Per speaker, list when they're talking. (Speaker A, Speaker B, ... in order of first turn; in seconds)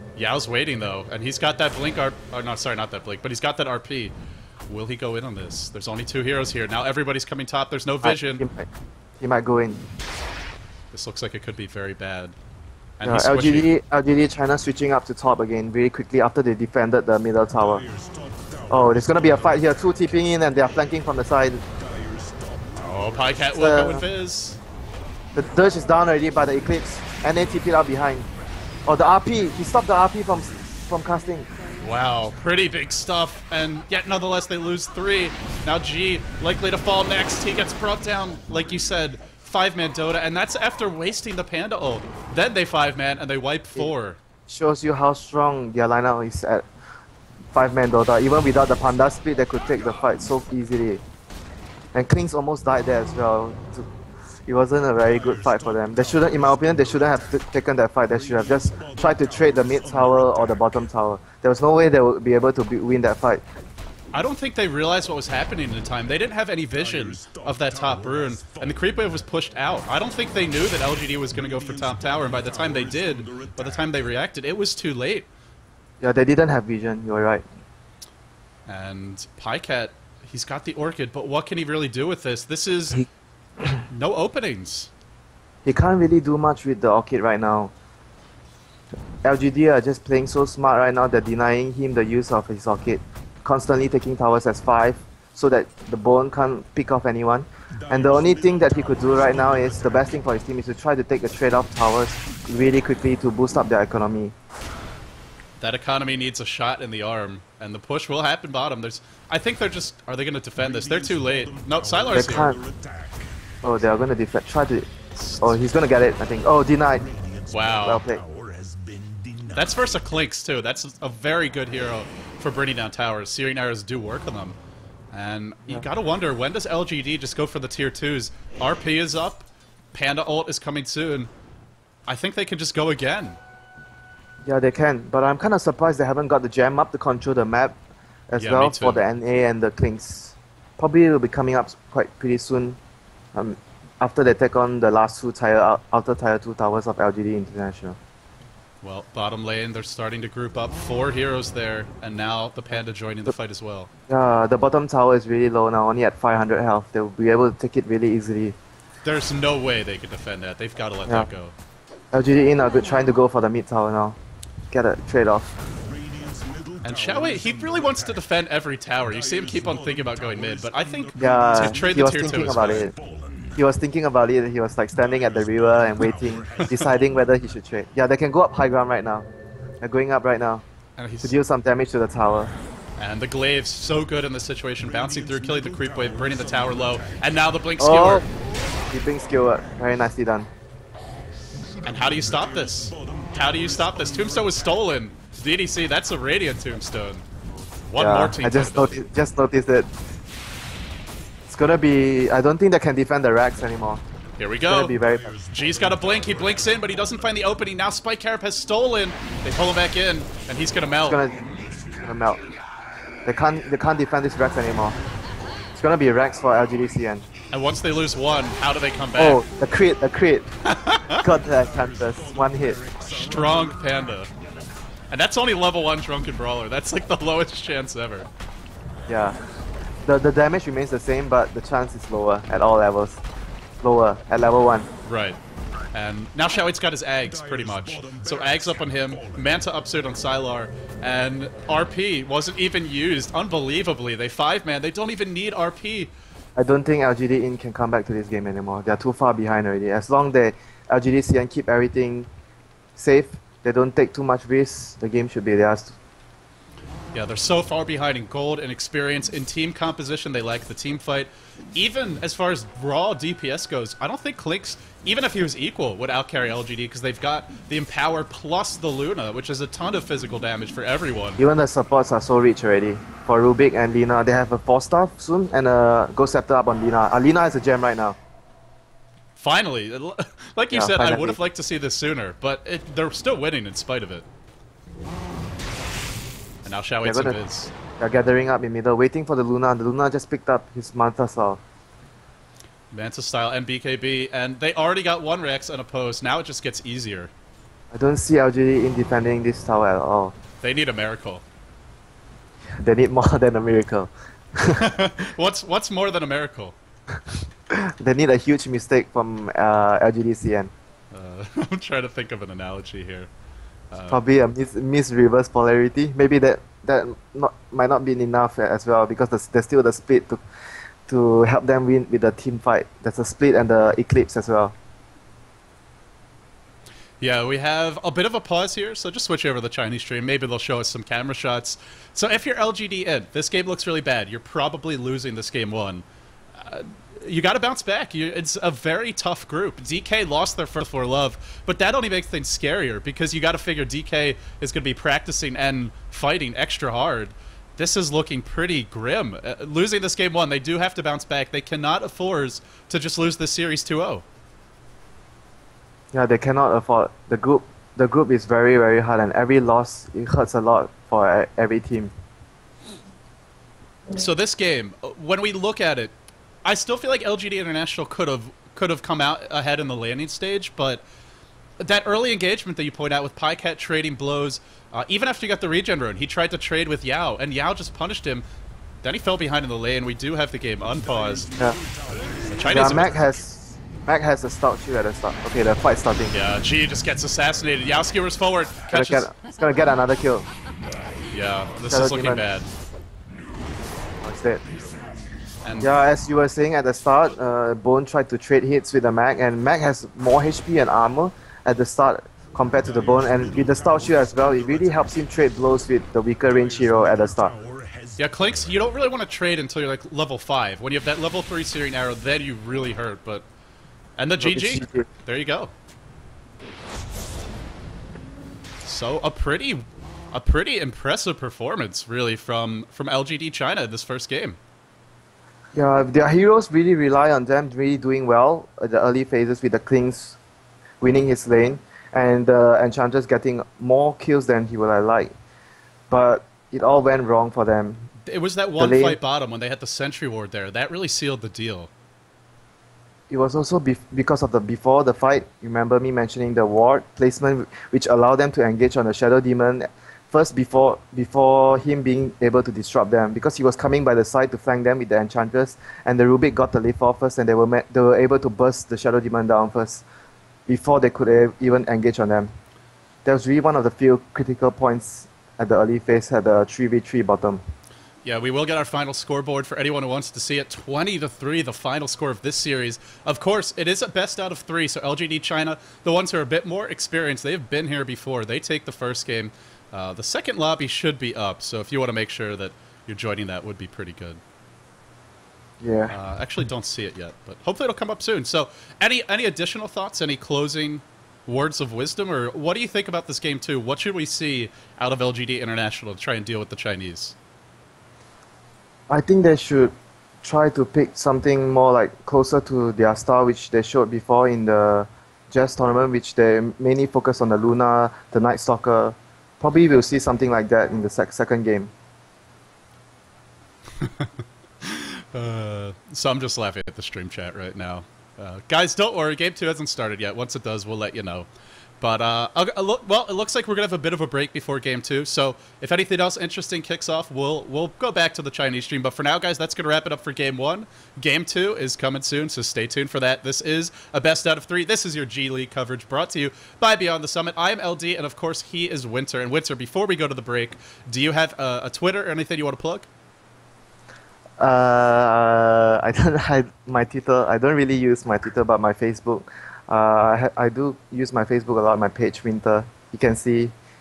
Speaker A: 0.1-4.1, 4.7-8.4, 10.9-12.3, 13.0-13.7, 22.8-24.6, 31.8-44.2, 64.1-75.2, 78.7-83.0, 83.9-84.9, 105.6-112.5, 115.1-115.6, 117.5-118.0, 119.5-124.6, 125.1-131.3, 132.1-133.4, 138.4-139.0, 148.8-153.9, 159.0-161.5, 166.8-172.9, 176.6-176.8, 181.0-181.3, 183.0-188.2, 191.8-197.2, 197.8-199.0, 204.4-205.0, 205.5-211.2, 217.5-219.4, 220.6-221.2, 223.1-224.3, 225.1-228.3, 235.0-235.4, 235.9-246.1, 257.1-271.4, 279.4-284.2, 286.6-287.7, 292.9-297.3, 300.6-301.4, 304.6-306.7, 311.1-313.3, 313.9-314.2, 327.2-336.0, 336.6-354.2, 364.1-366.1, 366.6-371.0, 371.8-378.4, 379.0-381.4, 382.5-383.1, 386.3-389.3, 391.3-392.7, 395.6-395.9, 408.2-413.4, 414.2-415.7, 418.8-424.6, 438.3-441.9, 468.2-484.4, 486.1-497.3, 514.0-514.3, 514.8-521.5, 522.0-543.1
Speaker B: 8.0-8.7, 9.2-9.8, 13.0-17.8, 18.7-21.6, 23.5-24.0, 25.3-28.3, 28.9-31.5, 44.5-46.6, 47.5-51.0, 51.9-53.9, 54.5-63.4, 76.0-77.4, 85.6-87.7, 89.2-104.3, 112.1-112.6, 113.6-114.9, 115.4-117.0, 117.8-118.2, 134.4-137.8, 138.3-142.8, 143.3-148.0, 154.1-158.6, 162.1-164.2, 164.7-165.5, 171.2-172.9, 173.6-179.3, 179.8-180.6, 181.2-182.5, 187.8-188.3, 188.9-190.5, 198.0-199.9, 201.5-204.0, 204.7-205.3, 211.1-211.4, 211.9-212.4, 213.2-215.0, 215.7-217.3, 219.2-220.5, 221.0-222.8, 229.1-229.4, 230.0-233.2, 233.8-234.9, 246.6-252.3, 253.0-255.9, 271.4-278.2, 280.7-281.4, 287.0-287.4, 288.0-291.6, 297.9-300.3, 302.8-305.0, 307.7-310.7, 314.1-320.4, 321.1-324.7, 356.1-362.1, 382.7-386.4, 388.9-390.5, 391.9-392.4, 394.2-394.6, 395.8-407.5, 414.4-415.1, 425.7-430.4, 431.0-435.3, 436.1-438.1, 438.8-439.2, 443.3-460.0, 460.7-462.5, 463.2-467.6, 485.8-486.1, 499.1-511.9, 544.6-553.7
Speaker C: 17.5-20.1, 21.7-23.4, 55.0-57.4, 58.1-60.9, 66.7-69.2, 71.3-74.1, 97.7-100.2, 110.5-113.5, 116.8-119.9, 165.8-168.3, 169.0-173.6, 174.9-177.4, 184.8-187.3, 191.8-194.9, 204.9-207.6, 221.3-224.2, 237.2-239.7, 380.9-383.4, 402.8-405.2, 406.4-408.9